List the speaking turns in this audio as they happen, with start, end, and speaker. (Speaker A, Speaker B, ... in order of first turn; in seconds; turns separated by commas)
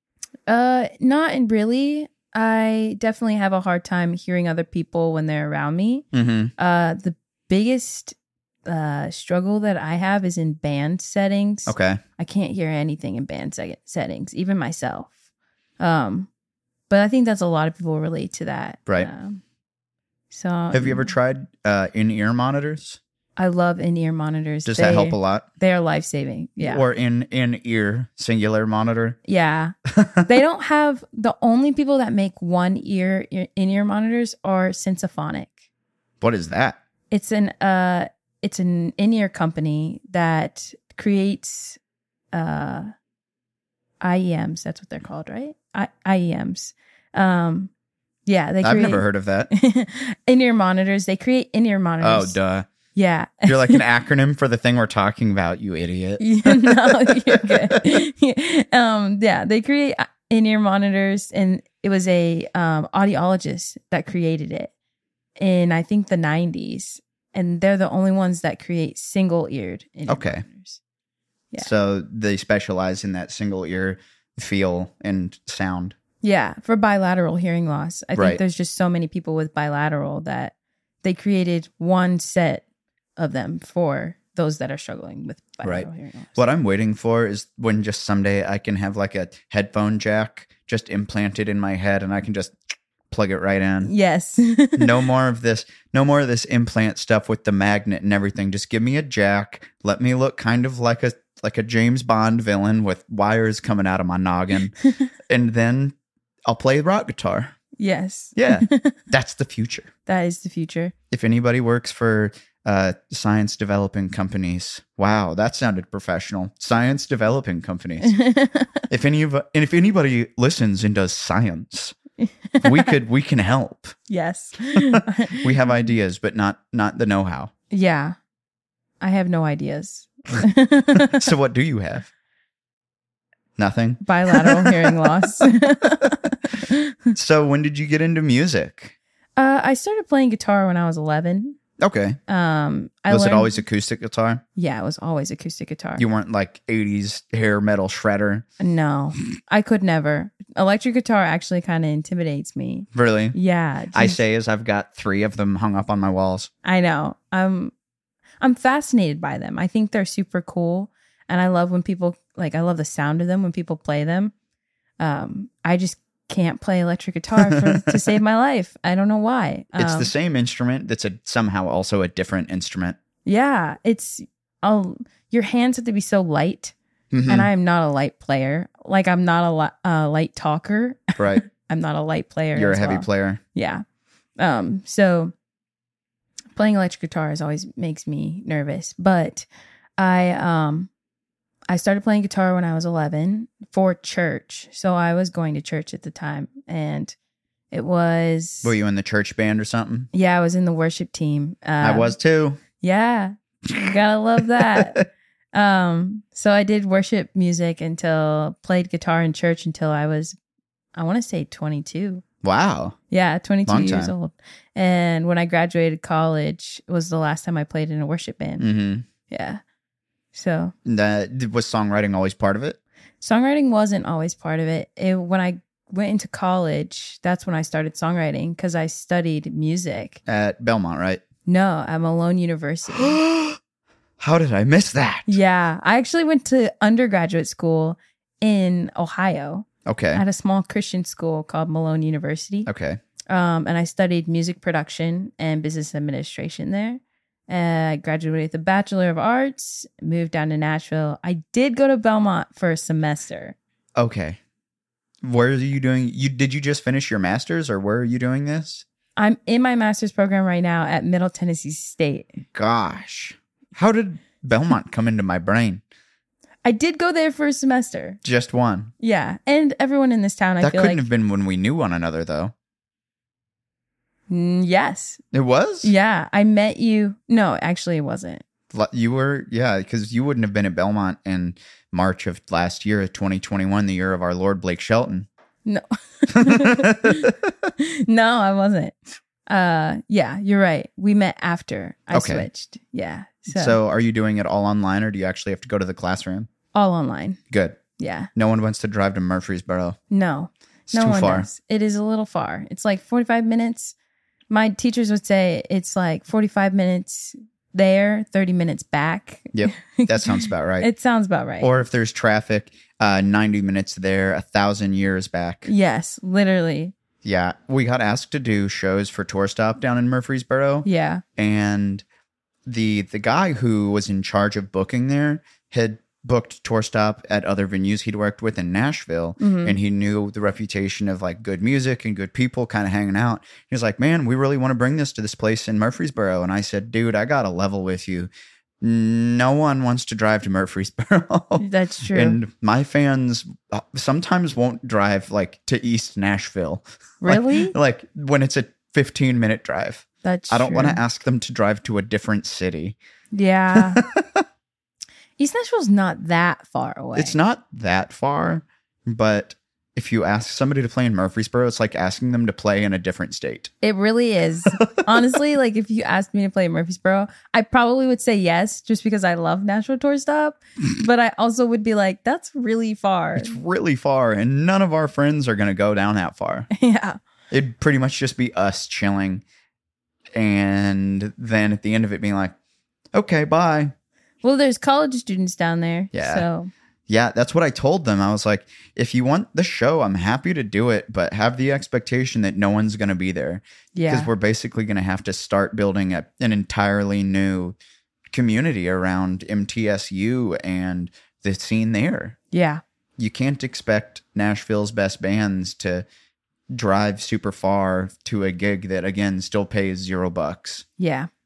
Speaker A: 0.5-6.0, Speaker B: 6.1-6.5, Speaker A: 6.6-8.2, Speaker A: 8.7-15.2, Speaker B: 11.7-12.0, Speaker A: 15.8-16.3, Speaker A: 16.9-19.4, Speaker A: 20.3-21.1, Speaker B: 20.7-23.0, Speaker A: 23.4-26.9, Speaker B: 24.6-25.5, Speaker B: 26.6-29.2, Speaker A: 29.3-29.7, Speaker B: 29.9-30.3, Speaker A: 30.3-35.5, Speaker B: 36.2-36.8, Speaker A: 37.1-41.8, Speaker A: 42.3-42.9, Speaker A: 44.0-47.7, Speaker A: 48.3-52.4, Speaker B: 48.6-49.5, Speaker B: 52.0-52.7, Speaker A: 53.0-53.8, Speaker B: 53.5-57.8, Speaker A: 56.2-64.7, Speaker A: 65.4-70.8, Speaker B: 70.1-70.5, Speaker B: 71.6-76.0, Speaker A: 76.2-82.6, Speaker B: 78.2-78.4, Speaker A: 83.2-86.4, Speaker B: 85.6-92.6, Speaker B: 93.1-93.9, Speaker A: 93.8-95.0, Speaker B: 94.8-104.7, Speaker B: 105.3-106.0, Speaker B: 106.5-107.5, Speaker A: 107.8-109.0, Speaker B: 108.4-109.9, Speaker A: 110.1-110.9, Speaker B: 111.1-118.2, Speaker A: 118.0-118.8, Speaker B: 118.9-122.0, Speaker A: 122.2-122.9, Speaker B: 122.6-124.0, Speaker A: 124.1-125.5, Speaker B: 124.8-127.5, Speaker A: 127.7-128.2, Speaker A: 129.0-131.3, Speaker B: 131.0-132.1, Speaker B: 133.6-136.1, Speaker A: 134.0-137.1, Speaker B: 137.1-138.9, Speaker A: 139.4-141.6, Speaker B: 141.8-142.2, Speaker A: 142.3-143.5, Speaker B: 143.1-144.4, Speaker A: 144.6-146.0, Speaker B: 146.0-148.4, Speaker A: 148.6-154.2, Speaker B: 152.9-153.4, Speaker B: 153.9-156.5, Speaker A: 156.6-157.7, Speaker A: 158.4-164.3, Speaker A: 165.0-170.1, Speaker B: 167.4-168.1, Speaker B: 169.8-173.0, Speaker A: 173.3-176.7, Speaker B: 177.1-177.5, Speaker A: 177.3-183.8, Speaker B: 181.2-181.4, Speaker B: 182.5-183.4, Speaker A: 184.4-185.3, Speaker A: 186.6-189.5, Speaker A: 190.0-190.9, Speaker A: 191.7-197.2, Speaker A: 197.7-198.8, Speaker B: 198.6-200.1, Speaker A: 200.1-202.2, Speaker B: 201.8-202.6, Speaker A: 202.8-210.4, Speaker B: 204.6-205.1, Speaker A: 210.9-212.2, Speaker B: 212.4-213.0, Speaker A: 213.1-218.7, Speaker B: 213.7-214.1, Speaker B: 218.6-219.1, Speaker A: 219.3-219.6, Speaker A: 220.3-220.7, Speaker B: 220.9-222.8, Speaker A: 223.2-230.2, Speaker B: 230.3-231.2, Speaker A: 231.5-233.2, Speaker B: 232.9-233.6, Speaker B: 234.2-235.4, Speaker A: 235.3-242.7, Speaker B: 239.9-240.2, Speaker B: 242.7-243.0, Speaker A: 243.3-253.6, Speaker B: 254.0-254.4, Speaker B: 255.2-258.9, Speaker A: 259.2-262.4, Speaker B: 262.5-265.8, Speaker A: 266.6-268.2, Speaker B: 268.2-268.9, Speaker A: 269.0-271.1, Speaker B: 270.6-272.5, Speaker A: 274.3-275.2, Speaker B: 275.3-275.9, Speaker A: 275.8-278.4, Speaker B: 278.7-285.3, Speaker A: 285.7-289.0, Speaker B: 286.3-287.4, Speaker A: 289.5-293.8, Speaker B: 292.1-292.5, Speaker B: 293.5-296.5, Speaker A: 296.7-297.4, Speaker B: 297.5-297.8, Speaker A: 298.0-298.3, Speaker B: 298.4-300.0, Speaker A: 300.1-303.9, Speaker B: 300.9-301.5, Speaker A: 304.5-311.7, Speaker B: 309.5-310.9, Speaker B: 311.6-315.7, Speaker A: 315.7-316.9, Speaker B: 317.2-322.0, Speaker A: 320.9-321.2, Speaker B: 322.7-338.3, Speaker A: 329.4-329.8, Speaker B: 338.8-353.0, Speaker A: 341.6-342.4, Speaker A: 347.2-347.8, Speaker A: 350.2-351.0, Speaker A: 353.3-354.0, Speaker B: 353.7-354.4, Speaker A: 355.4-357.4, Speaker B: 357.2-363.7, Speaker A: 363.8-373.6, Speaker B: 364.8-365.1, Speaker B: 373.4-376.7, Speaker A: 376.7-377.2, Speaker B: 377.5-379.4, Speaker B: 380.4-382.6, Speaker B: 383.1-383.9, Speaker A: 384.4-386.7, Speaker B: 386.1-386.5, Speaker B: 387.1-397.8, Speaker A: 393.9-394.3, Speaker B: 398.3-402.4, Speaker A: 402.5-402.8, Speaker B: 403.2-406.1, Speaker B: 406.7-410.9, Speaker A: 411.0-411.3